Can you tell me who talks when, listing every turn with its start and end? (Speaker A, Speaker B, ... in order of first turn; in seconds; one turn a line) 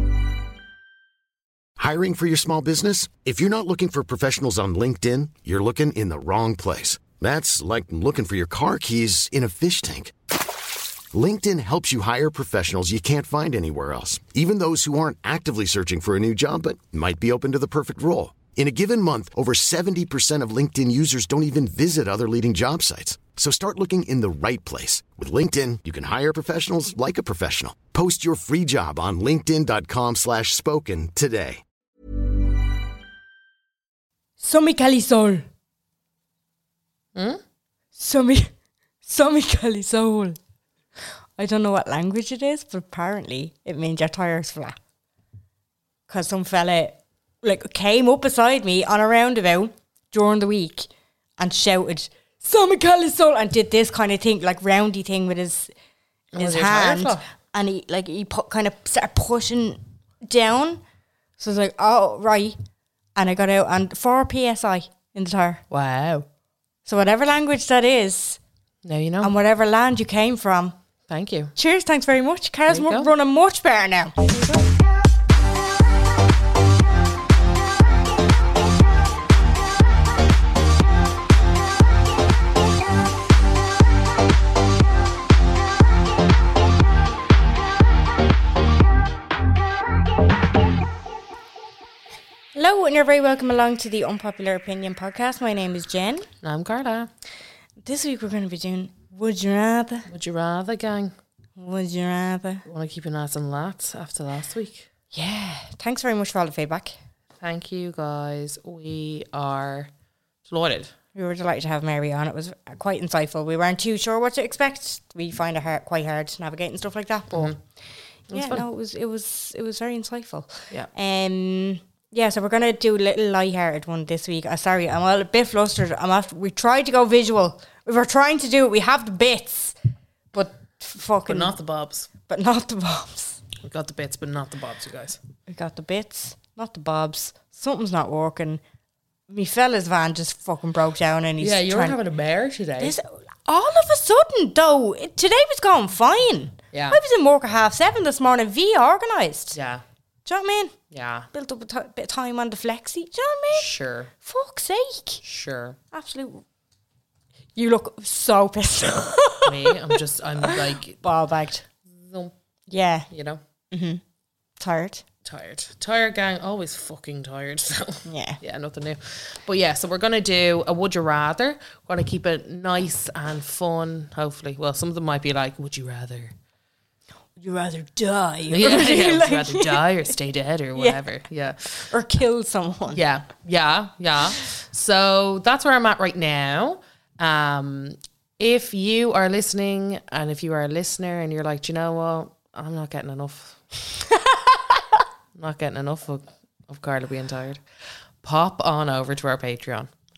Speaker A: 1.8-10.1
Speaker A: 11.1-31.6
Speaker B: 34.4-35.4
Speaker C: 37.1-37.4
Speaker B: 38.0-38.5
Speaker B: 39.0-40.4
Speaker B: 41.4-44.8
Speaker B: 46.1-55.7
Speaker C: 56.3-57.2
Speaker B: 56.3-60.8
Speaker B: 61.4-62.6
Speaker B: 63.1-65.6
Speaker C: 65.7-66.2
Speaker B: 66.8-68.4
Speaker C: 68.8-69.3
Speaker B: 69.2-70.7
Speaker C: 71.1-71.5
Speaker B: 71.5-74.3
Speaker C: 72.7-73.1
Speaker B: 92.5-96.3
Speaker C: 96.4-97.1
Speaker B: 97.8-100.1
Speaker C: 100.1-101.1
Speaker B: 101.6-102.6
Speaker C: 102.7-104.9
Speaker B: 105.1-106.9
Speaker C: 107.4-109.9
Speaker C: 110.5-110.9
Speaker B: 111.1-117.6
Speaker C: 118.3-118.6
Speaker B: 118.3-129.8
Speaker B: 130.3-131.5
Speaker C: 131.3-132.1
Speaker B: 132.2-133.4
Speaker C: 133.6-135.2
Speaker B: 135.5-138.6
Speaker B: 139.3-142.0
Speaker C: 141.4-142.9
Speaker B: 142.8-149.6
Speaker C: 146.7-147.0
Speaker C: 149.5-149.8
Speaker B: 150.2-150.7
Speaker C: 150.9-151.3
Speaker B: 151.3-153.7
Speaker C: 153.5-154.1
Speaker B: 154.2-155.2
Speaker C: 155.2-155.8
Speaker B: 155.9-156.4
Speaker B: 157.6-159.9
Speaker C: 159.4-161.0
Speaker B: 160.4-161.6
Speaker C: 161.9-162.3
Speaker B: 162.7-163.1
Speaker C: 163.1-163.4
Speaker B: 163.7-164.0
Speaker B: 164.6-165.0
Speaker C: 165.2-176.3
Speaker B: 168.1-168.4
Speaker B: 177.4-179.8
Speaker C: 178.5-181.9
Speaker B: 180.7-181.0
Speaker B: 181.9-183.0
Speaker C: 182.9-193.6
Speaker C: 195.3-197.6
Speaker C: 198.2-199.9